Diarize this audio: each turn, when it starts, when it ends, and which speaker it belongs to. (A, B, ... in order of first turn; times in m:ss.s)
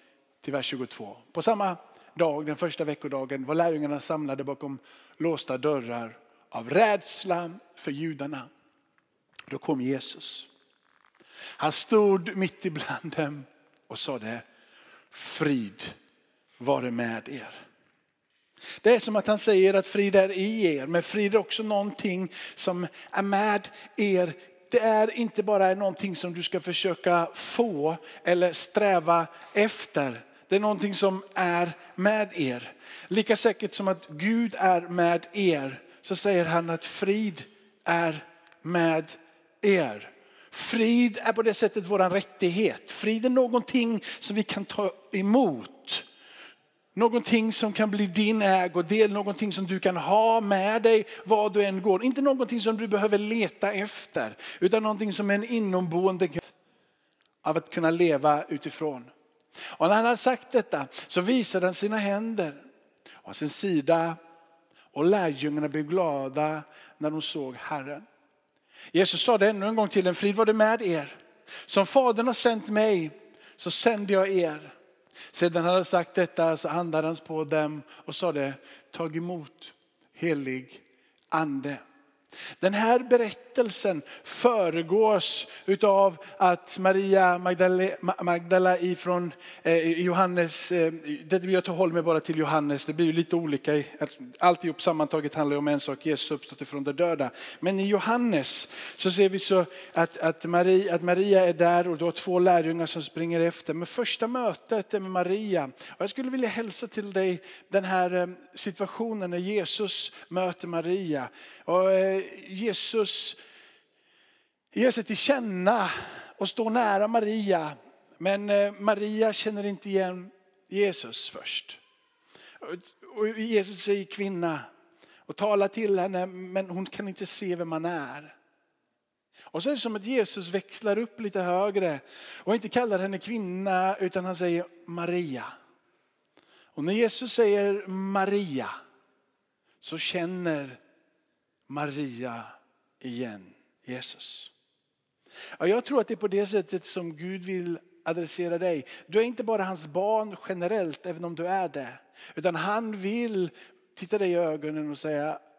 0:00.4-0:08.5 A
0:09.5-0:10.5 A
0:11.6-0:14.4 A
0:15.1-0:15.9 A
0:16.6-0:17.6 A
0:18.8-0:46.0 A
0:46.9-0:56.5 A
0:57.4-0:59.1 A
0:59.8-1:02.6 A
1:03.2-1:04.2 A
1:04.9-1:08.0 A
1:08.9-1:14.7 A
1:15.3-1:21.8 A
1:22.6-1:53.4 A
1:54.7-2:01.8 A
2:02.6-2:04.7 A
2:05.3-2:08.3 A
2:09.5-2:15.6 A
2:16.7-2:18.8 A
2:19.8-2:20.8 A
2:21.7-2:24.5 A
2:25.6-2:35.4 A